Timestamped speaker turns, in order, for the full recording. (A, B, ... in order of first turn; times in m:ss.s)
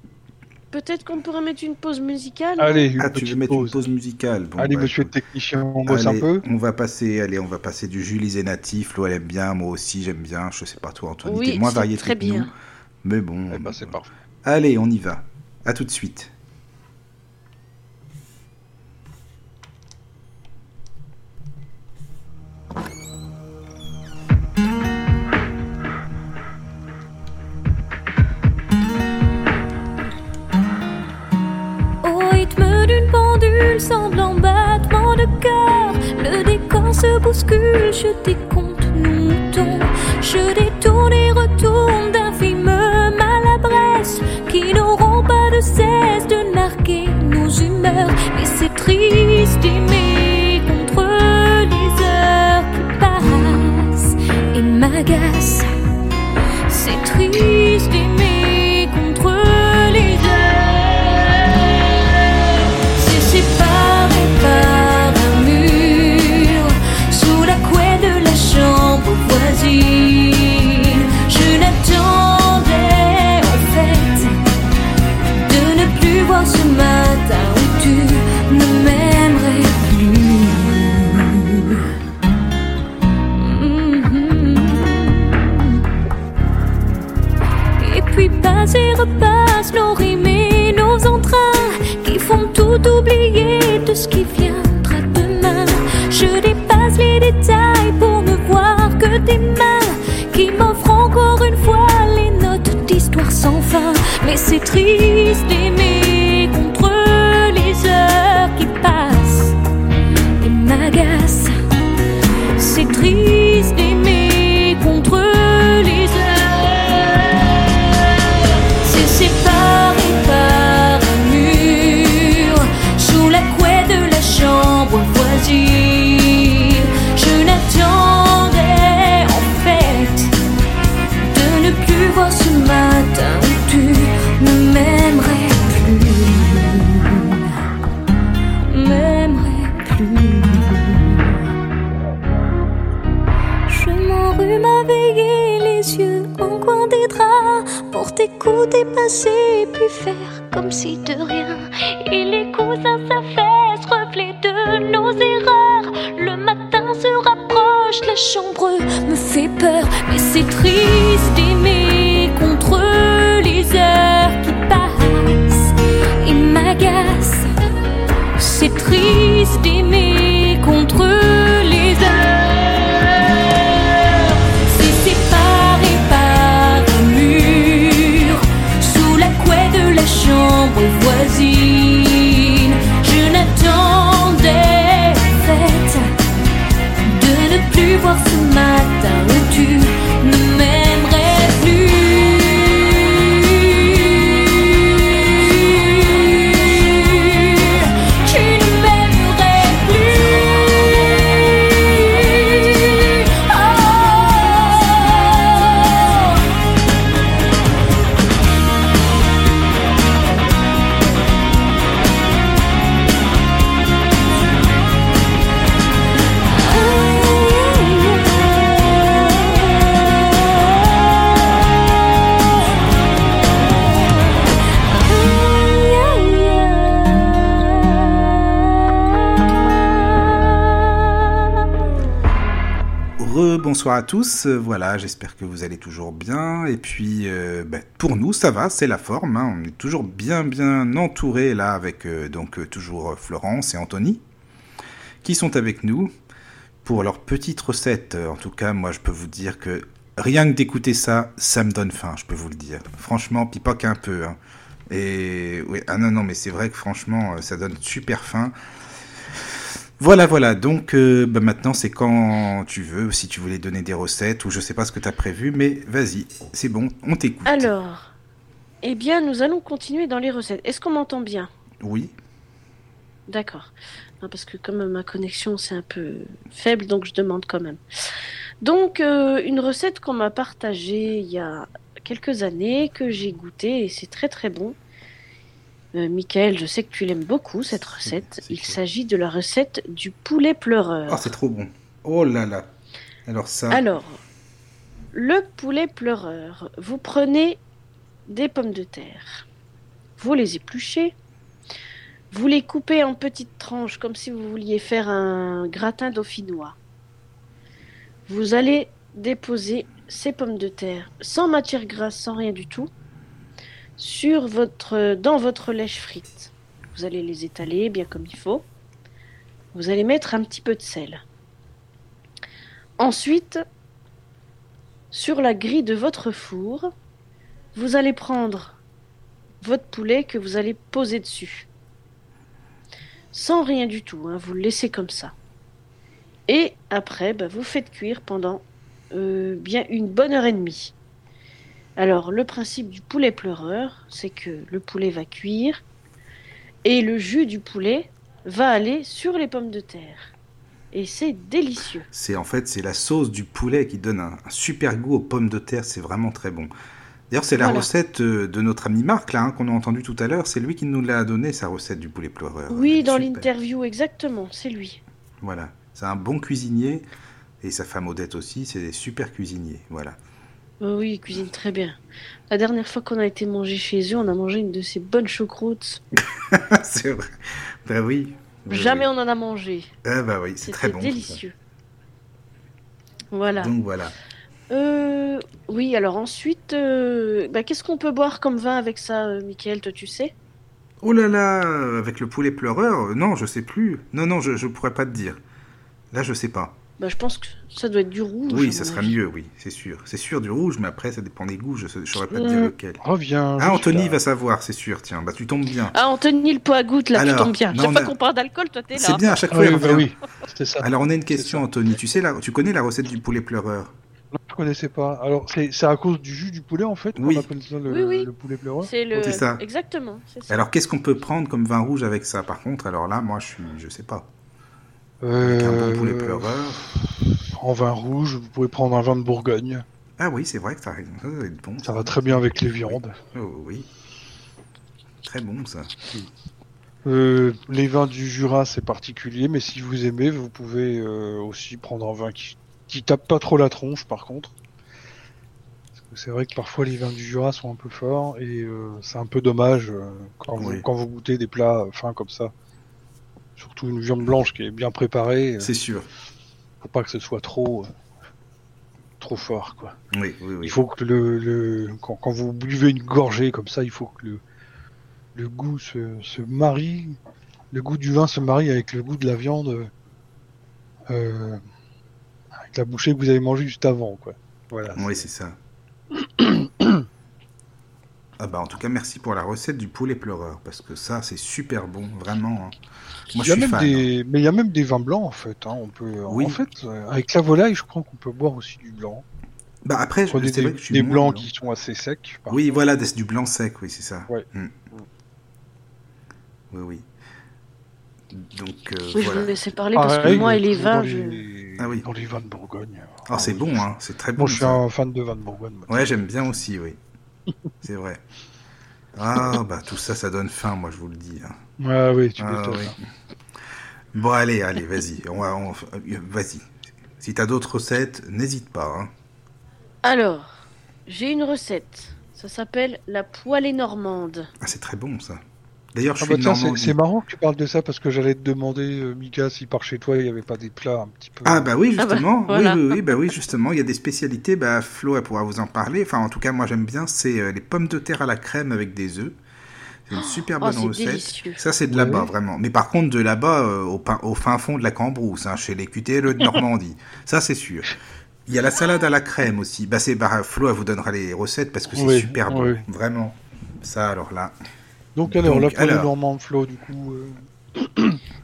0:00.7-0:02.8 A
0:02.6-0:03.8 B
0:03.0-0:05.1 C
0:04.6-0:06.4 B
0:05.8-0:12.5 C
0:11.2-0:12.5 A
0:13.0-0:16.3 C
0:13.5-0:14.1 B
0:32.0-0:55.7 D
0:56.7-1:14.4 D
1:15.3-1:21.8 D
1:23.3-1:25.8 D
1:27.8-1:49.6 D
1:50.4-1:51.5 D
1:52.6-1:58.1 D
1:58.8-2:10.3 D
2:11.2-2:17.6 D
2:18.7-2:21.4 D
2:23.7-2:47.5 D
2:48.4-3:06.1 D
3:07.0-3:26.4 D
3:36.5-3:41.1 D
3:43.7-3:44.1 D
3:44.9-3:48.6 D
3:53.2-4:04.2 C
4:05.2-4:06.1 C
4:06.8-4:14.4 C
4:14.9-4:18.5 C
4:20.0-4:27.7 C
4:27.4-4:28.1 A
4:28.8-4:31.5 A
4:31.8-4:32.1 C
4:33.3-4:37.8 A
4:38.6-4:44.8 A
4:45.9-4:51.3 A
4:48.0-4:48.8 C
4:51.1-4:52.7 C
4:53.3-4:53.8 C
4:53.7-4:54.2 A
4:55.1-4:57.6 A
4:58.3-4:59.4 A
5:00.2-5:01.1 A
5:02.3-5:06.8 A
5:08.3-5:12.9 A
5:14.0-5:18.6 A
5:19.7-5:21.2 A
5:23.0-5:23.6 A
5:25.1-5:26.9 A
5:27.7-5:28.8 A
5:29.6-5:31.7 A
5:33.3-5:35.3 A
5:36.5-5:40.9 A
5:42.0-5:45.8 A
5:46.8-5:50.3 A
5:50.9-5:52.1 A
5:52.1-5:56.7 C
5:57.3-6:03.5 C
5:57.6-5:57.9 A
6:02.7-6:05.0 A
6:05.4-6:07.0 C
6:07.6-6:10.2 C
6:10.8-6:12.0 A
6:12.5-6:16.0 A
6:16.3-6:19.1 C
6:18.7-6:19.9 A
6:20.0-6:21.4 C
6:20.6-6:21.5 A
6:23.3-6:23.7 A
6:23.6-6:24.1 C
6:24.7-6:30.3 A
6:31.0-6:35.4 C
6:36.1-6:36.8 C
6:37.0-6:39.2 A
6:38.5-6:43.0 C
6:42.3-6:44.2 B
6:43.6-6:45.9 C
6:45.9-6:49.3 A
6:47.1-6:48.1 C
6:48.9-6:50.1 C
6:49.5-6:51.6 B
6:50.8-6:53.9 C
6:54.3-6:58.9 B
6:57.2-6:57.5 C
6:57.9-6:58.3 A
6:58.8-7:00.6 A
6:59.2-6:59.6 C
7:00.5-7:04.3 C
7:05.2-7:09.8 B
7:05.4-7:06.9 C
7:10.2-7:13.9 C
7:11.8-7:13.2 B
7:15.2-7:15.9 C
7:17.0-7:24.5 B
7:26.0-7:32.5 B
7:30.6-7:30.8 C
7:33.6-7:35.7 B
7:35.6-7:36.1 C
7:36.8-7:37.9 B
7:39.2-7:40.0 B
7:40.1-7:40.8 C
7:40.6-7:44.4 B
7:45.3-7:47.2 B
7:47.7-7:49.9 B
7:51.1-7:51.6 B
7:52.6-7:55.2 B
7:54.9-7:55.6 C
7:56.1-7:57.1 B
7:58.4-8:02.8 C
8:03.3-8:04.1 C
8:03.4-8:09.2 B
8:06.3-8:06.6 C
8:09.8-8:11.5 C
8:10.3-8:12.8 B
8:12.5-8:14.7 C
8:14.3-8:15.0 B
8:16.7-8:17.1 C
8:18.3-8:19.5 C
8:19.1-8:21.4 A
8:19.9-8:23.8 B
8:21.8-8:22.1 C
8:23.3-8:24.8 C
8:24.4-8:26.2 B
8:25.9-8:27.0 C
8:27.8-8:28.2 C
8:29.1-8:31.6 C
8:31.8-8:33.0 B
8:32.4-8:32.9 C
8:34.1-8:39.1 C
8:40.0-8:44.5 A
8:44.6-8:45.4 C
8:45.9-8:47.0 C
8:46.2-8:51.7 B
8:51.4-8:59.4 C
8:52.0-8:53.0 A
9:00.1-9:08.0 C
9:00.1-9:01.6 A
9:01.9-9:02.3 B
9:08.5-9:14.5 C
9:11.9-9:12.8 B
9:15.2-9:18.2 B
9:15.3-9:16.1 C